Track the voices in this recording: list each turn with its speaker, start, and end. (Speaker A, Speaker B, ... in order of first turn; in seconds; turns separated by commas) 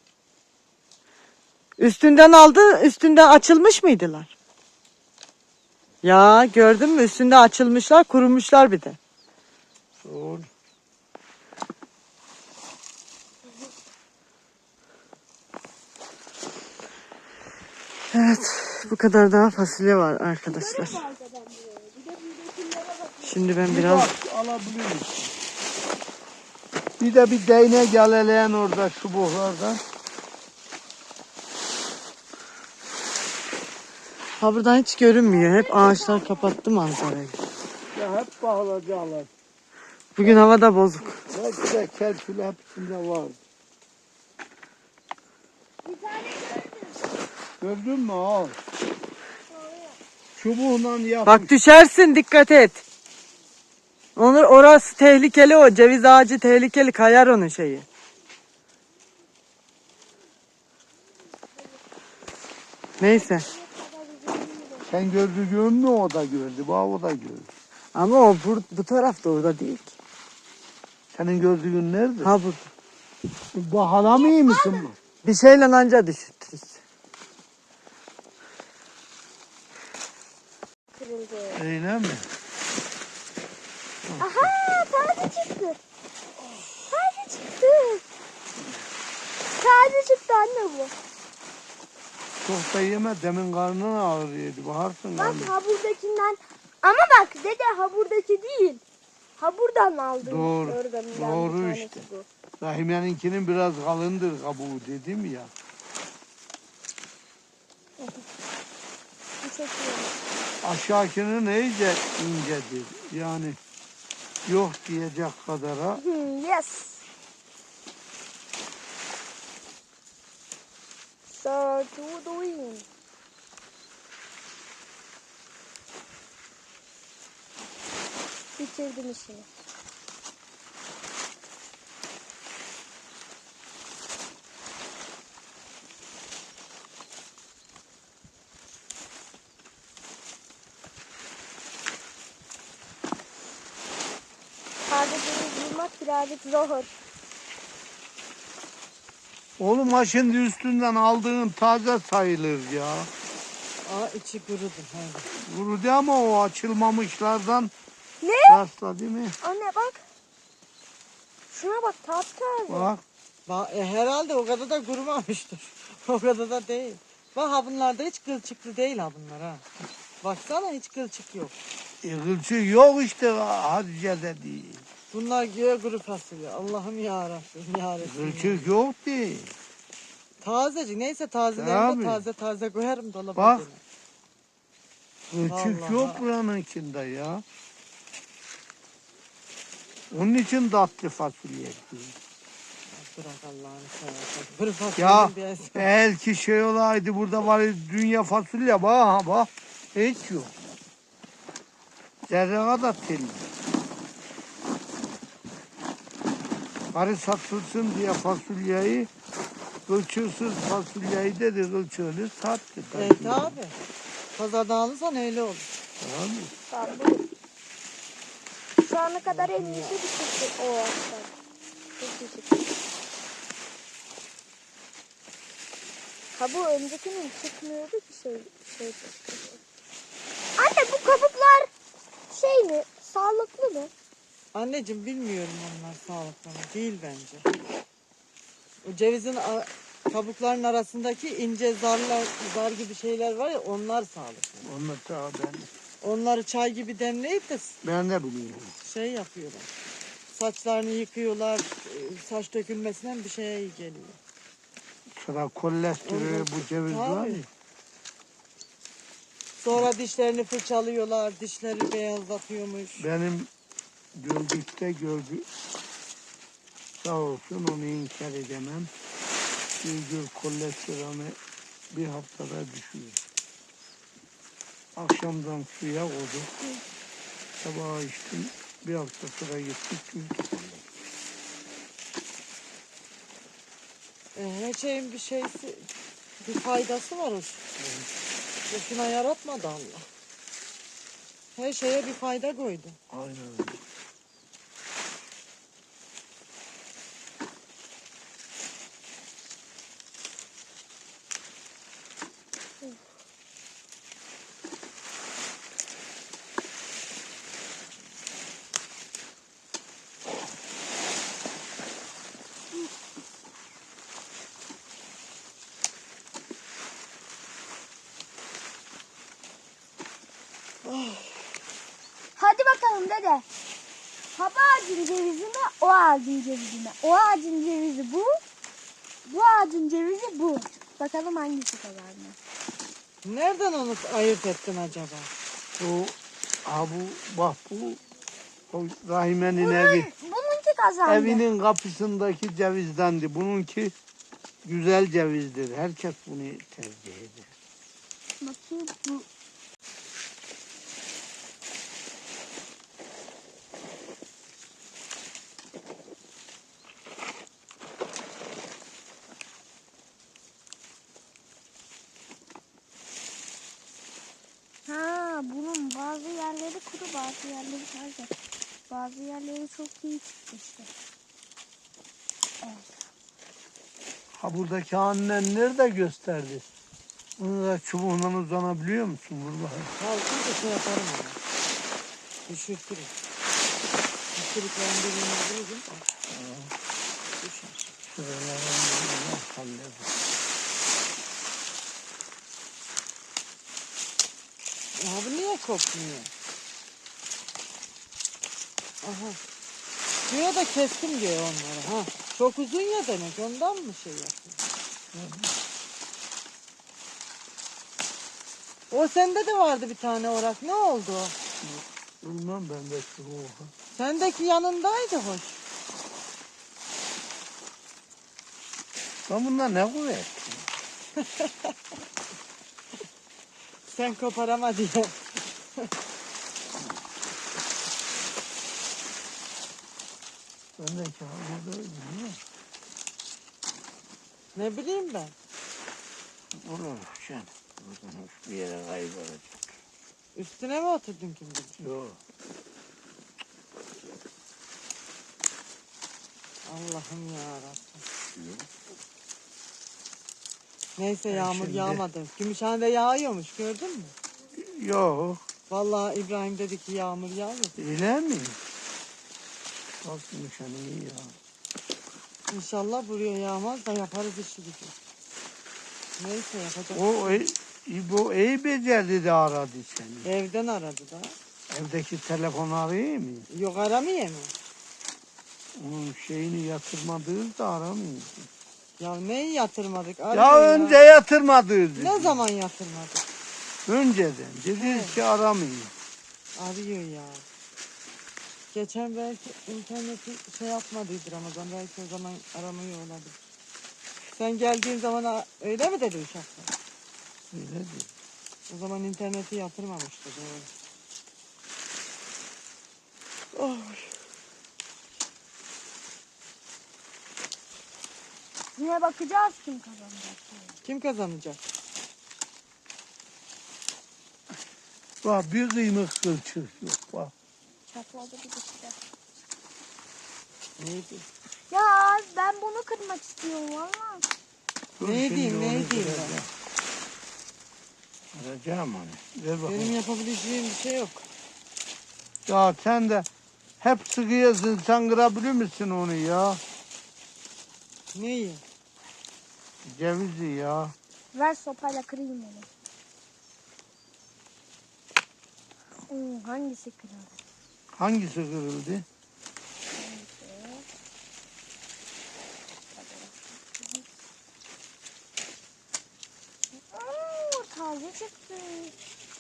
Speaker A: 1.8-4.3, Speaker A: 6.0-9.0, Speaker B: 10.0-10.5, Speaker A: 18.1-21.0, Speaker C: 20.5-23.4, Speaker A: 23.2-24.1, Speaker B: 23.7-25.3, Speaker B: 27.0-29.8, Speaker A: 34.4-37.4, Speaker C: 35.2-36.5, Speaker B: 38.0-39.3, Speaker A: 40.2-41.1, Speaker B: 41.0-43.4, Speaker C: 45.8-47.1, Speaker B: 47.6-48.6, Speaker C: 49.5-50.0, Speaker B: 50.4-51.5, Speaker A: 51.3-52.8, Speaker A: 54.2-57.9, Speaker A: 63.0-63.5, Speaker C: 63.0-64.9, Speaker B: 64.9-67.5, Speaker A: 68.0-70.0, Speaker B: 71.1-72.3, Speaker A: 72.2-72.7, Speaker B: 73.5-75.0, Speaker C: 74.0-74.8, Speaker A: 75.2-76.8, Speaker C: 81.0-81.6, Speaker B: 81.5-82.3, Speaker B: 84.1-84.5, Speaker C: 84.2-85.8, Speaker C: 86.5-88.0, Speaker B: 88.6-88.8, Speaker C: 89.6-90.9, Speaker B: 92.4-95.5, Speaker C: 95.2-98.8, Speaker C: 99.4-102.3, Speaker B: 100.2-102.0, Speaker B: 102.6-105.5, Speaker C: 108.0-108.3, Speaker C: 109.4-110.2, Speaker B: 110.6-113.6, Speaker B: 114.5-116.0, Speaker C: 116.0-117.0, Speaker C: 121.3-122.9, Speaker C: 128.6-129.5, Speaker C: 144.9-146.9, Speaker B: 149.6-153.1, Speaker A: 153.8-155.3, Speaker B: 155.3-157.7, Speaker C: 158.2-158.6, Speaker B: 158.5-159.4, Speaker C: 159.4-160.0, Speaker C: 161.5-162.9, Speaker B: 162.7-163.0, Speaker A: 163.5-169.7, Speaker A: 170.2-171.6, Speaker B: 172.0-174.9, Speaker A: 175.1-178.6, Speaker B: 178.0-179.6, Speaker A: 180.4-183.8, Speaker B: 181.6-182.2, Speaker B: 183.4-183.7, Speaker B: 185.3-187.4, Speaker A: 185.5-186.2, Speaker B: 190.1-192.2, Speaker A: 192.9-195.9, Speaker B: 195.0-200.5, Speaker B: 202.2-203.5, Speaker B: 206.9-209.1, Speaker B: 209.9-213.6, Speaker A: 212.9-213.7, Speaker A: 214.4-215.7, Speaker B: 216.0-216.5, Speaker C: 216.7-217.3, Speaker C: 218.8-221.3, Speaker A: 219.2-219.9, Speaker C: 222.0-222.7, Speaker C: 226.3-229.6, Speaker C: 230.6-231.7, Speaker C: 232.3-233.9, Speaker A: 234.5-237.4, Speaker A: 238.8-244.6, Speaker B: 244.6-245.7, Speaker A: 246.0-247.8, Speaker B: 247.8-248.8, Speaker A: 248.8-249.7, Speaker A: 250.3-254.2, Speaker B: 255.1-257.5, Speaker A: 256.0-257.4, Speaker A: 259.6-263.1, Speaker B: 263.0-263.5, Speaker B: 264.2-265.5, Speaker B: 267.0-268.9, Speaker B: 269.8-271.4, Speaker B: 271.9-273.2, Speaker B: 275.0-276.5, Speaker B: 277.6-280.9, Speaker A: 284.4-285.9, Speaker A: 286.4-287.6, Speaker B: 287.8-288.1, Speaker A: 288.7-290.1, Speaker A: 291.6-293.0, Speaker B: 293.1-293.8, Speaker A: 320.8-321.4, Speaker C: 322.4-323.4, Speaker C: 324.4-328.3, Speaker C: 329.2-332.4, Speaker A: 333.2-335.3, Speaker B: 335.8-338.0, Speaker B: 338.7-340.1, Speaker C: 339.6-341.4, Speaker B: 341.1-343.9, Speaker B: 344.6-347.5, Speaker C: 348.4-349.3, Speaker C: 364.9-368.3, Speaker C: 368.9-370.9, Speaker C: 372.6-373.1, Speaker B: 374.4-376.6, Speaker B: 377.4-379.9, Speaker A: 380.0-381.4, Speaker A: 382.5-383.1, Speaker A: 384.4-386.0, Speaker B: 386.3-386.7, Speaker A: 387.4-387.9, Speaker B: 388.0-390.1, Speaker A: 395.0-396.3, Speaker A: 399.0-399.4, Speaker A: 400.3-404.6, Speaker B: 405.1-405.5, Speaker A: 408.9-411.4, Speaker B: 411.6-413.7, Speaker A: 413.9-415.6, Speaker B: 419.3-420.7, Speaker A: 421.2-421.7, Speaker A: 423.9-425.2, Speaker B: 430.8-432.4, Speaker A: 434.6-435.3, Speaker B: 436.6-439.8, Speaker A: 440.4-441.8, Speaker B: 441.8-442.2, Speaker A: 446.6-448.0, Speaker B: 448.4-448.7, Speaker A: 451.0-454.1, Speaker B: 451.3-452.1, Speaker B: 454.5-455.4, Speaker A: 455.7-457.8, Speaker B: 457.8-458.6, Speaker B: 460.0-461.4, Speaker A: 462.5-464.9, Speaker A: 466.2-467.4, Speaker B: 466.9-470.3, Speaker A: 470.2-471.4, Speaker B: 471.7-473.5, Speaker A: 473.5-474.5, Speaker B: 475.8-478.5, Speaker A: 479.0-481.0, Speaker B: 480.3-482.4, Speaker A: 482.0-483.2, Speaker B: 483.9-485.9, Speaker A: 484.8-485.2, Speaker A: 486.6-487.4, Speaker A: 488.7-493.4, Speaker A: 494.3-496.7, Speaker B: 497.5-498.1, Speaker A: 498.7-500.7, Speaker A: 503.5-504.1, Speaker C: 508.8-510.8, Speaker A: 510.9-511.6, Speaker B: 515.2-517.3, Speaker C: 517.9-519.0, Speaker A: 520.8-521.2, Speaker C: 521.7-524.2, Speaker B: 525.0-526.5, Speaker A: 525.0-526.4, Speaker B: 528.3-530.0, Speaker A: 529.6-531.2, Speaker B: 532.5-533.3, Speaker B: 533.8-536.6, Speaker A: 538.1-538.6, Speaker B: 539.9-540.9, Speaker C: 541.3-542.7, Speaker C: 546.1-547.4, Speaker B: 547.9-549.0, Speaker C: 550.0-550.9, Speaker C: 552.9-554.0, Speaker C: 556.9-558.9